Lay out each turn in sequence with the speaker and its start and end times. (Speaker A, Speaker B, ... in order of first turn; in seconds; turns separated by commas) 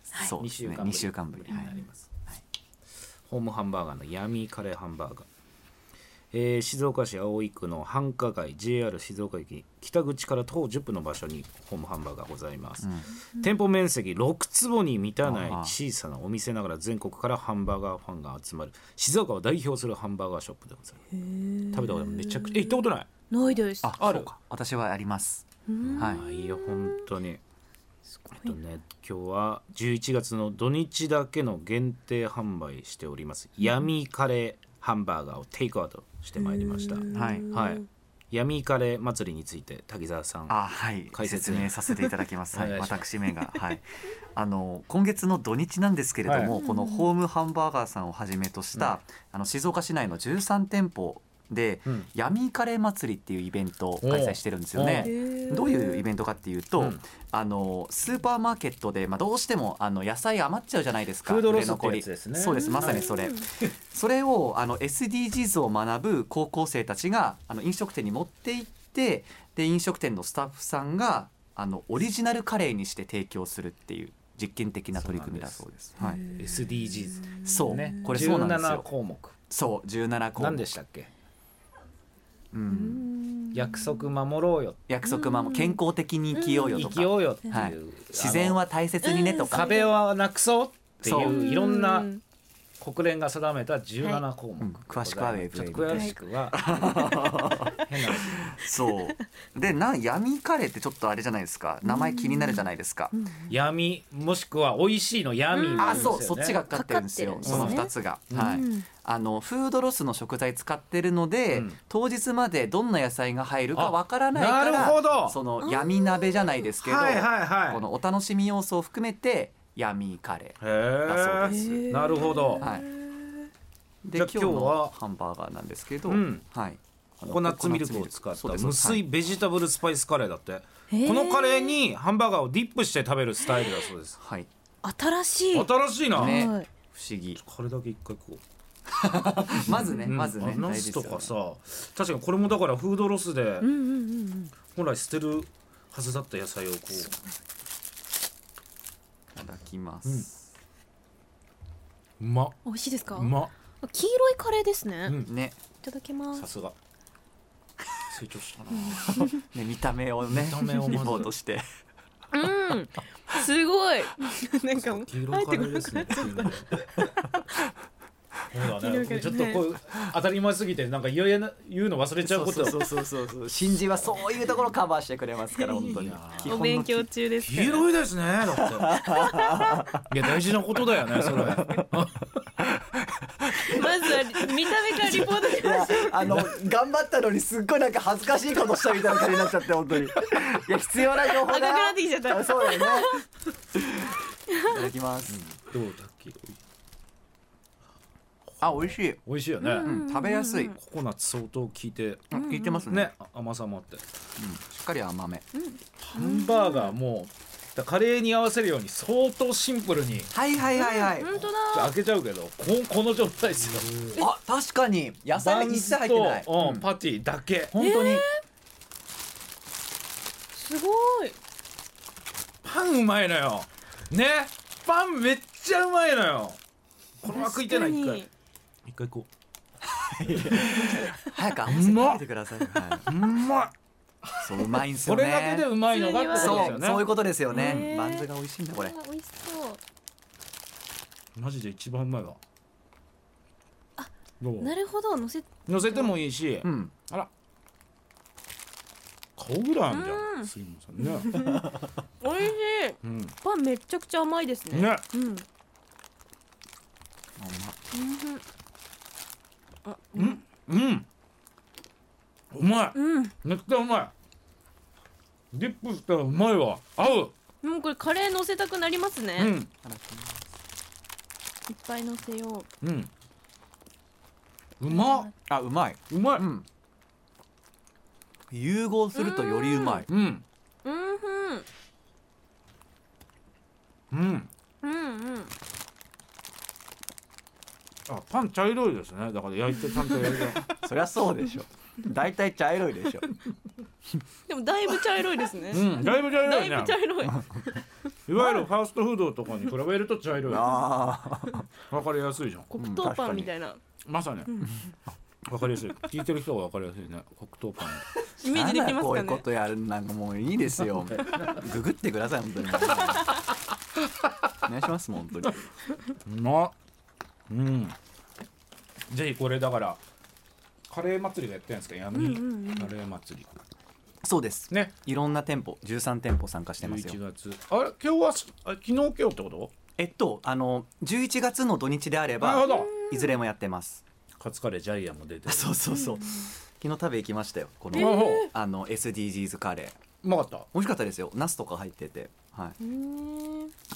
Speaker A: 0.1-1.8, Speaker B: 0.2-2.1, Speaker C: 1.5-1.8, Speaker B: 3.3-5.3, Speaker B: 6.3-21.0, Speaker A: 12.8-13.1, Speaker A: 15.2-15.8, Speaker C: 21.2-24.0, Speaker B: 21.7-23.1, Speaker A: 23.8-26.2, Speaker B: 24.0-24.3, Speaker C: 25.7-27.1, Speaker B: 25.9-27.4, Speaker C: 28.2-28.5, Speaker B: 28.3-40.6, Speaker C: 36.4-37.8, Speaker A: 37.1-37.5, Speaker A: 40.5-43.8, Speaker B: 41.1-41.9, Speaker B: 42.5-43.0, Speaker A: 44.4-76.2, Speaker B: 46.3-46.5, Speaker C: 46.5-47.1, Speaker B: 54.0-55.1, Speaker C: 55.0-56.0, Speaker B: 61.2-63.1, Speaker C: 62.5-63.5, Speaker B: 75.0-75.6, Speaker C: 76.0-76.4, Speaker B: 76.3-79.3, Speaker A: 77.4-78.9, Speaker C: 77.7-78.0, Speaker A: 79.5-80.7, Speaker B: 80.4-81.1, Speaker A: 82.5-83.1, Speaker C: 82.7-84.1, Speaker B: 83.5-84.8, Speaker A: 84.9-89.7, Speaker C: 85.0-85.8, Speaker C: 86.3-86.9, Speaker B: 86.7-88.6, Speaker C: 89.0-89.9, Speaker B: 89.5-92.1, Speaker A: 91.0-91.4, Speaker C: 91.2-92.2, Speaker B: 92.8-96.7, Speaker A: 94.6-103.2, Speaker C: 95.9-96.2, Speaker C: 96.9-98.2, Speaker B: 97.9-98.5, Speaker C: 101.8-103.5, Speaker B: 103.5-106.6, Speaker C: 105.5-108.9, Speaker A: 105.8-121.9, Speaker B: 107.5-108.6, Speaker B: 111.5-111.8, Speaker B: 113.7-115.4, Speaker C: 115.6-116.7, Speaker B: 116.8-117.8, Speaker B: 120.6-122.7, Speaker C: 121.5-123.5, Speaker A: 122.6-122.9, Speaker A: 124.0-129.0, Speaker B: 124.2-124.9, Speaker B: 126.1-126.4, Speaker B: 127.2-134.2, Speaker C: 130.9-131.8, Speaker A: 134.2-134.5, Speaker C: 134.8-136.7, Speaker B: 135.5-136.5, Speaker A: 136.2-137.4, Speaker B: 137.4-138.4, Speaker A: 139.0-141.3, Speaker B: 139.5-143.7, Speaker C: 143.6-144.5, Speaker B: 144.7-147.1, Speaker C: 146.9-147.3, Speaker A: 149.3-150.4, Speaker B: 152.2-152.6, Speaker C: 152.7-155.2, Speaker B: 153.2-153.5, Speaker B: 155.1-155.3, Speaker A: 155.2-155.6, Speaker C: 155.8-156.5, Speaker B: 156.3-156.8, Speaker B: 158.1-159.2, Speaker A: 158.6-161.7, Speaker C: 158.7-159.4, Speaker B: 160.3-161.3, Speaker C: 160.7-161.1, Speaker C: 162.3-167.7, Speaker B: 164.8-166.9, Speaker B: 168.5-172.9, Speaker C: 168.8-169.6, Speaker A: 172.2-177.1, Speaker C: 175.5-177.9, Speaker B: 175.9-176.6, Speaker B: 177.4-179.0, Speaker A: 178.5-180.0, Speaker C: 179.0-179.8, Speaker B: 180.1-182.3, Speaker A: 181.2-181.9, Speaker A: 182.8-193.1, Speaker C: 183.5-186.3, Speaker C: 191.2-193.2, Speaker A: 193.7-195.4, Speaker C: 194.5-194.9, Speaker B: 195.3-196.6, Speaker A: 198.6-199.2, Speaker B: 198.7-199.9, Speaker C: 199.6-200.8, Speaker A: 199.8-200.8, Speaker B: 200.8-202.3, Speaker A: 202.3-203.1, Speaker C: 202.3-202.8, Speaker B: 202.9-204.0, Speaker A: 204.4-205.5, Speaker C: 205.5-206.9, Speaker B: 206.0-210.3, Speaker A: 210.3-211.5, Speaker C: 210.8-211.9, Speaker B: 211.7-214.2, Speaker A: 214.2-216.9, Speaker B: 215.3-217.7, Speaker A: 217.7-218.2, Speaker C: 217.8-218.4, Speaker C: 220.5-221.4, Speaker B: 222.6-226.6, Speaker B: 227.2-228.2, Speaker C: 227.2-228.3, Speaker B: 228.8-229.3, Speaker A: 229.9-233.1, Speaker B: 230.4-231.0, Speaker B: 231.7-232.2, Speaker B: 233.0-233.7, Speaker B: 234.4-237.9, Speaker A: 234.4-235.7, Speaker C: 235.9-236.8, Speaker A: 236.3-238.9, Speaker C: 237.5-239.8, Speaker B: 241.4-242.4, Speaker C: 244.0-246.2, Speaker B: 244.4-244.7, Speaker B: 245.7-247.3, Speaker A: 246.6-246.9, Speaker B: 249.4-251.4, Speaker C: 249.9-251.7, Speaker A: 251.4-251.8, Speaker C: 252.2-255.4, Speaker B: 253.0-253.3, Speaker B: 254.7-255.0, Speaker A: 257.4-257.8, Speaker C: 257.9-258.4, Speaker C: 259.9-260.4, Speaker B: 260.2-261.1, Speaker B: 262.5-264.1, Speaker C: 262.9-263.3, Speaker B: 265.5-267.3, Speaker C: 267.6-269.5, Speaker B: 269.4-269.7, Speaker A: 269.8-270.4, Speaker C: 271.7-272.7, Speaker B: 272.8-273.1, Speaker B: 274.8-275.3, Speaker C: 274.9-275.3, Speaker A: 275.5-276.7, Speaker B: 276.1-276.5, Speaker A: 278.5-280.1, Speaker C: 279.1-280.1, Speaker B: 280.1-280.4, Speaker C: 280.8-281.7, Speaker B: 284.1-284.5, Speaker C: 284.8-285.5, Speaker B: 288.1-290.7, Speaker C: 289.9-290.8, Speaker A: 290.8-293.3, Speaker C: 294.5-298.7, Speaker B: 295.7-297.1, Speaker B: 298.3-300.8, Speaker A: 300.5-301.7, Speaker B: 301.9-302.7, Speaker C: 302.7-303.8, Speaker A: 302.8-303.5, Speaker B: 304.1-304.6, Speaker C: 304.5-304.9, Speaker B: 305.4-308.1, Speaker C: 308.2-309.5, Speaker A: 308.4-313.4, Speaker B: 311.2-311.6, Speaker A: 314.6-315.6, Speaker B: 316.2-316.7, Speaker B: 317.5-318.0, Speaker B: 319.1-320.0, Speaker B: 320.9-323.5, Speaker C: 322.1-322.9, Speaker A: 324.2-327.2, Speaker B: 326.8-329.7, Speaker A: 330.0-334.0, Speaker B: 332.4-332.9, Speaker C: 332.6-333.4, Speaker B: 334.4-335.8, Speaker A: 335.5-340.0, Speaker C: 335.9-336.5, Speaker B: 337.9-338.5, Speaker C: 337.9-338.5, Speaker B: 340.2-340.7, Speaker A: 340.7-342.8, Speaker C: 342.8-343.7